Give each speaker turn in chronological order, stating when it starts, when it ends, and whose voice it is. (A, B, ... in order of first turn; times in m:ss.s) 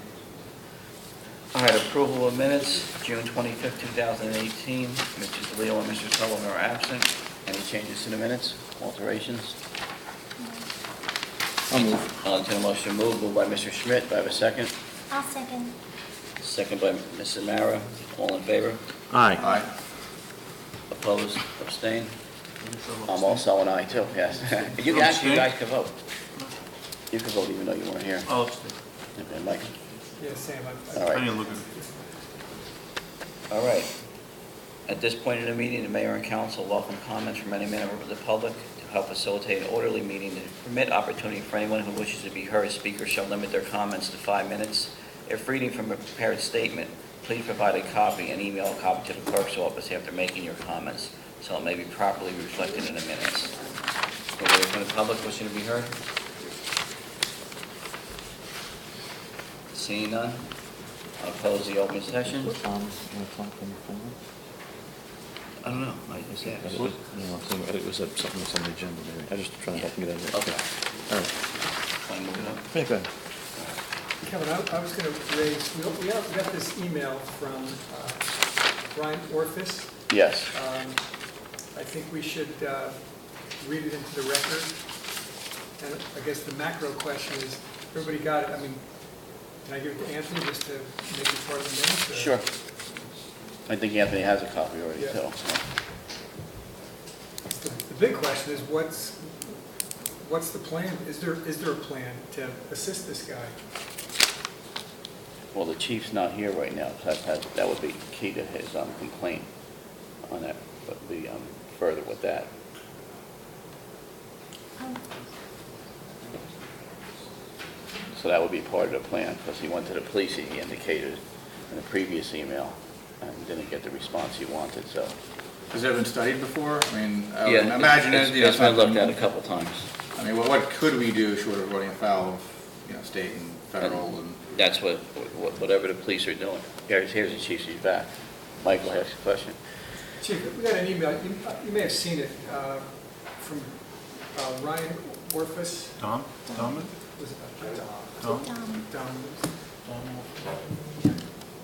0:01.5-0:09.5 A
0:10.4-0:10.7 B
0:11.7-0:12.0 C
0:11.7-0:14.7 A
0:15.1-0:15.7 B
0:16.4-0:18.8 A
0:19.1-0:19.4 C
0:19.4-0:19.7 D
0:20.9-0:22.1 A
0:22.6-0:23.5 E
0:23.1-0:25.9 A
0:24.5-0:25.6 E
0:27.1-0:28.3 A
0:28.2-0:28.8 E
0:29.2-0:29.7 A
0:30.2-0:32.1 F
0:30.9-0:31.3 A
0:31.0-0:31.7 E
0:33.5-0:33.9 A
0:34.9-0:53.5 A
0:54.4-0:55.9 A
0:59.7-1:00.5 A
1:01.2-1:02.6 A
1:02.4-1:04.2 C
1:05.6-1:06.8 A
1:06.4-1:10.6 C
1:10.3-1:10.6 A
1:12.0-1:12.6 A
1:12.7-1:13.1 C
1:14.2-1:18.2 F
1:18.9-1:20.0 F
1:20.1-1:20.5 A
1:20.5-1:21.0 F
1:21.7-1:23.0 F
1:23.6-1:24.7 F
1:25.8-1:32.4 F
1:32.1-1:32.4 A
1:33.7-1:35.6 A
1:35.0-1:35.2 F
1:37.5-1:39.6 F
1:40.2-1:43.5 F
1:45.5-1:49.5 A
1:50.3-1:52.5 A
1:58.1-2:05.1 A
2:05.7-2:09.1 D
2:07.4-2:09.8 A
2:10.2-2:14.7 D
2:14.6-2:19.6 A
2:20.2-2:23.8 F
2:24.3-2:26.1 F
2:26.0-2:26.9 E
2:26.5-2:26.8 B
2:26.9-2:28.2 F
2:28.2-2:28.6 E
2:28.2-2:28.9 B
2:28.7-2:29.5 F
2:29.8-2:30.3 E